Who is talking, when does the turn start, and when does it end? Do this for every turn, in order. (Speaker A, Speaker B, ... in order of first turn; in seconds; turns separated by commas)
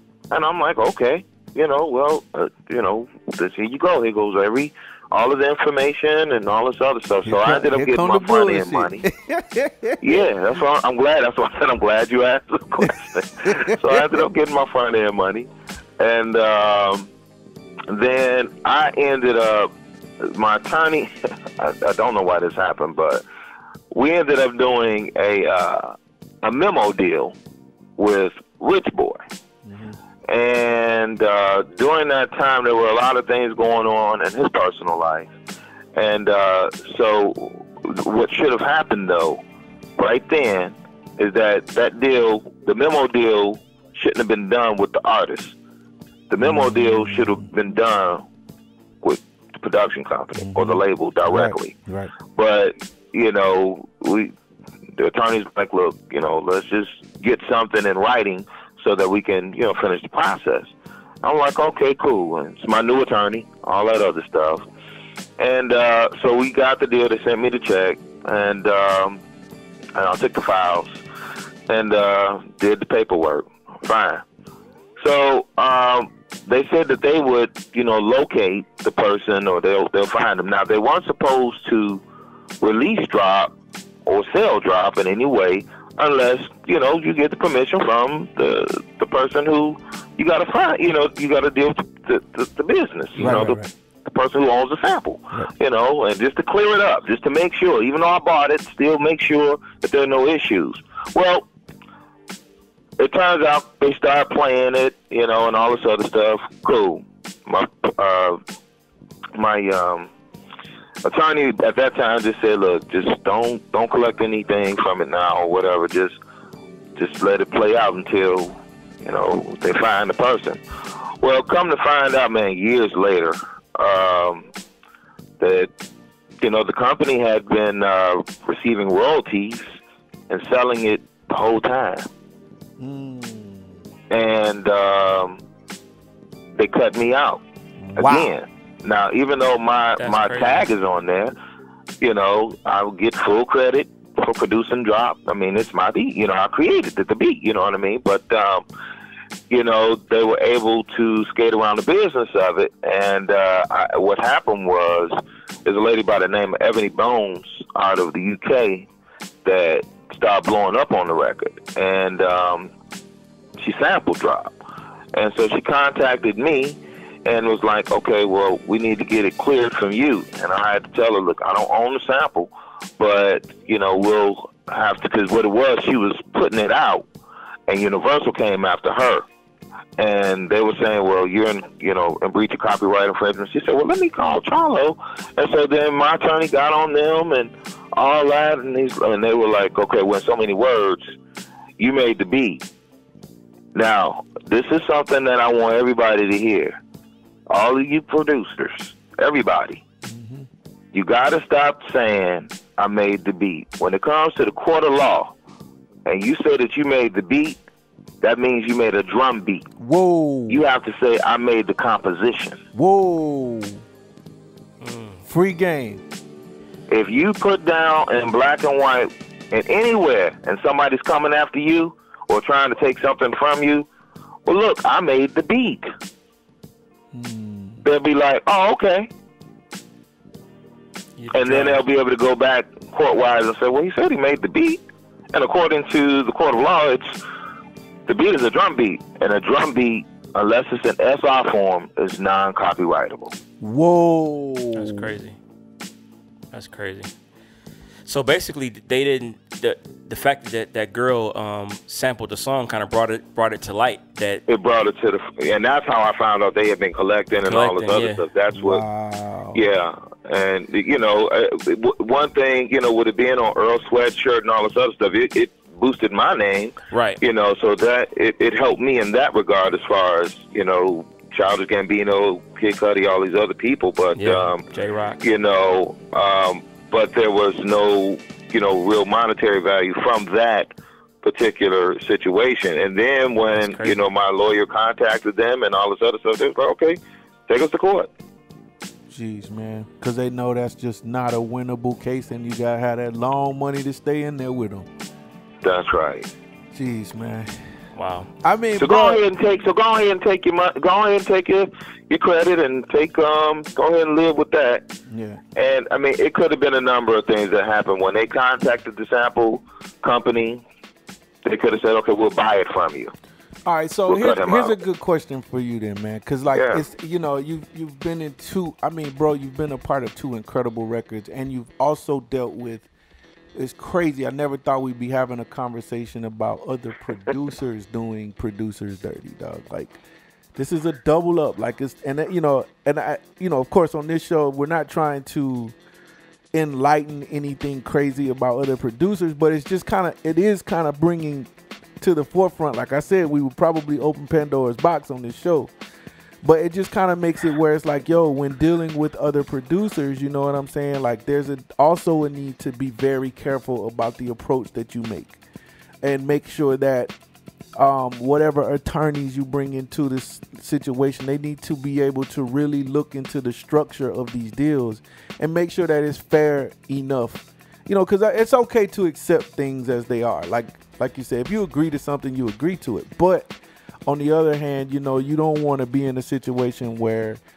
Speaker A: 0.3-9.1, Speaker B: 7.2-10.0, Speaker A: 10.0-15.5, Speaker B: 12.8-14.2, Speaker A: 16.0-17.1, Speaker A: 17.9-23.2, Speaker A: 23.9-27.4, Speaker A: 28.0-29.2, Speaker B: 29.6-30.0, Speaker A: 30.3-35.3, Speaker A: 36.0-39.4, Speaker A: 40.0-45.6, Speaker A: 46.3-48.3, Speaker B: 46.4-47.5, Speaker A: 49.0-51.7, Speaker B: 50.4-52.1, Speaker A: 52.3-54.3, Speaker A: 55.0-60.7, Speaker A: 61.2-64.7, Speaker A: 65.4-69.2, Speaker A: 70.0-71.0, Speaker A: 71.7-74.2, Speaker A: 75.0-82.0, Speaker A: 82.6-83.5, Speaker A: 84.1-101.5, Speaker C: 93.2-93.5, Speaker B: 93.2-93.7, Speaker A: 103.0-108.4, Speaker A: 109.3-110.1, Speaker A: 111.0-116.2, Speaker A: 117.0-120.6, Speaker A: 121.2-124.5, Speaker A: 125.4-125.7, Speaker A: 126.4-129.8, Speaker A: 130.3-132.1, Speaker B: 132.8-133.8, Speaker A: 134.1-135.4, Speaker A: 136.6-137.4, Speaker B: 137.8-138.3, Speaker A: 138.0-141.3, Speaker C: 140.0-140.7, Speaker A: 142.0-148.7, Speaker A: 149.5-158.9, Speaker A: 159.4-162.7, Speaker A: 163.6-164.5, Speaker A: 165.1-177.1, Speaker A: 177.7-179.2, Speaker A: 180.0-191.2, Speaker A: 191.8-192.6, Speaker A: 193.8-196.8, Speaker A: 197.5-199.8, Speaker B: 200.0-200.5, Speaker A: 200.9-205.3, Speaker A: 206.1-207.6, Speaker A: 208.2-209.7, Speaker B: 209.8-210.7, Speaker A: 210.5-212.6, Speaker B: 212.7-213.8, Speaker C: 214.8-215.3, Speaker B: 215.3-216.0, Speaker A: 216.9-223.9, Speaker A: 224.5-225.9, Speaker B: 227.1-227.8, Speaker A: 227.8-229.1, Speaker C: 231.2-231.8, Speaker A: 231.3-234.8, Speaker A: 235.3-237.2, Speaker A: 238.1-243.3, Speaker B: 243.6-245.1, Speaker C: 244.8-245.4, Speaker C: 246.5-247.1, Speaker C: 248.1-254.4, Speaker A: 254.5-258.8, Speaker C: 257.4-258.2, Speaker B: 258.5-259.6, Speaker A: 259.5-274.6, Speaker C: 266.9-267.2, Speaker C: 274.2-275.2, Speaker A: 275.2-280.7, Speaker A: 281.2-288.1, Speaker C: 283.5-284.0, Speaker B: 289.1-294.9, Speaker A: 295.6-296.3, Speaker B: 296.7-297.5, Speaker C: 297.9-298.3, Speaker B: 298.4-299.2, Speaker A: 298.8-304.9, Speaker B: 305.1-305.4, Speaker A: 305.6-310.6, Speaker A: 311.4-313.1, Speaker B: 313.7-322.9, Speaker A: 314.1-314.8, Speaker A: 316.5-316.9, Speaker B: 323.6-330.0, Speaker B: 330.6-335.8, Speaker B: 336.5-345.7, Speaker B: 346.4-355.4, Speaker B: 356.0-357.1, Speaker B: 357.8-377.4